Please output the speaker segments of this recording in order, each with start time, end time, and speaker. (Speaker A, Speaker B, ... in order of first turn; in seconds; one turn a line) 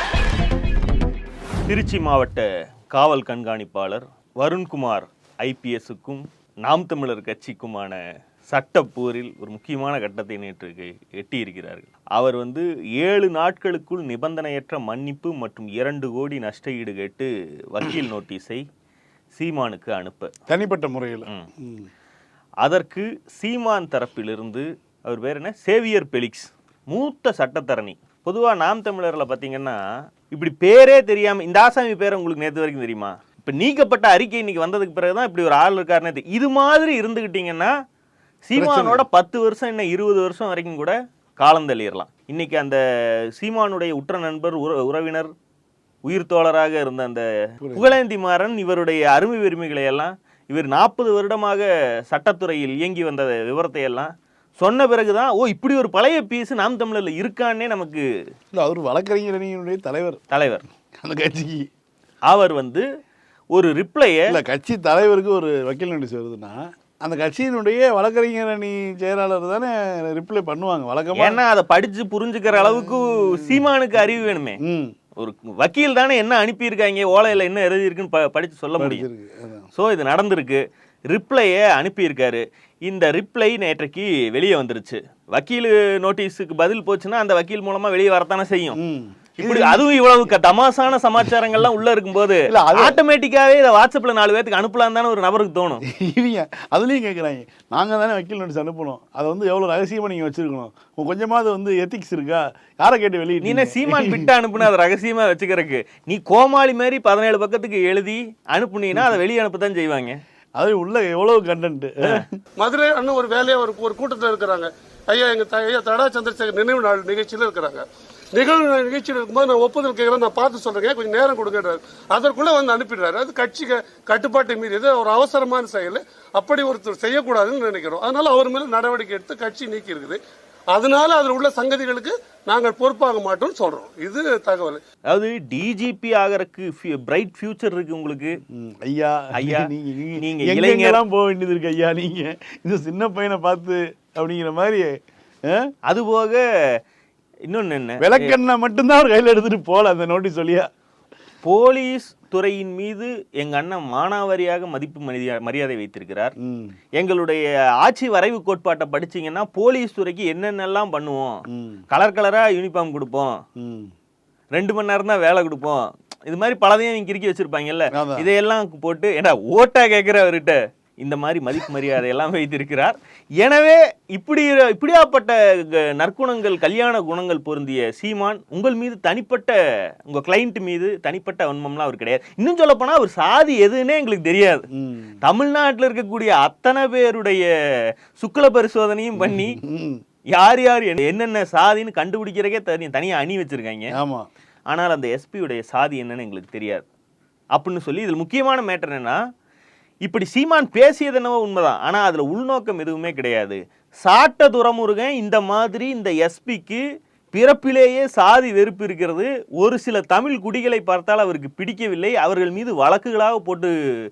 Speaker A: 1.7-18.6
Speaker A: 19.4-20.3
Speaker B: 20.5-21.9
Speaker A: 22.6-29.8
Speaker A: 30.3-37.7
Speaker A: 38.5-42.8
Speaker B: 38.6-39.0
Speaker A: 43.4-45.3
Speaker A: 46.0-58.0
Speaker B: 47.6-47.9
Speaker B: 58.5-60.2
Speaker A: 60.3-60.7
Speaker B: 61.0-61.7
Speaker A: 62.3-62.8
Speaker A: 63.5-64.4
Speaker B: 64.3-71.4
Speaker A: 71.2-74.6
Speaker B: 72.5-73.6
Speaker B: 74.7-74.9
Speaker A: 75.2-79.1
Speaker B: 78.8-79.7
Speaker A: 79.8-88.8
Speaker B: 88.8-89.8
Speaker A: 89.4-95.8
Speaker B: 92.5-93.0
Speaker B: 95.9-104.3
Speaker A: 103.4-110.2
Speaker B: 110.6-112.4
Speaker C: 112.6-117.8
Speaker C: 118.3-130.2
Speaker C: 130.7-134.8
Speaker A: 135.1-138.4
Speaker B: 138.5-144.9
Speaker A: 139.3-141.0
Speaker A: 145.9-146.4
Speaker A: 147.5-148.3
Speaker B: 148.0-150.7
Speaker A: 151.4-156.3
Speaker B: 156.4-156.8
Speaker A: 157.0-161.3
Speaker B: 161.5-161.8
Speaker A: 161.9-163.3
Speaker B: 163.6-163.9
Speaker A: 164.6-179.5
Speaker B: 167.9-168.3
Speaker A: 180.1-184.7
Speaker B: 184.8-185.2
Speaker A: 185.2-187.5
Speaker A: 188.2-189.6
Speaker B: 189.2-190.0
Speaker A: 190.3-193.9
Speaker B: 193.9-194.3
Speaker A: 194.7-196.9
Speaker A: 197.6-199.2
Speaker A: 200.1-206.8
Speaker A: 207.3-213.7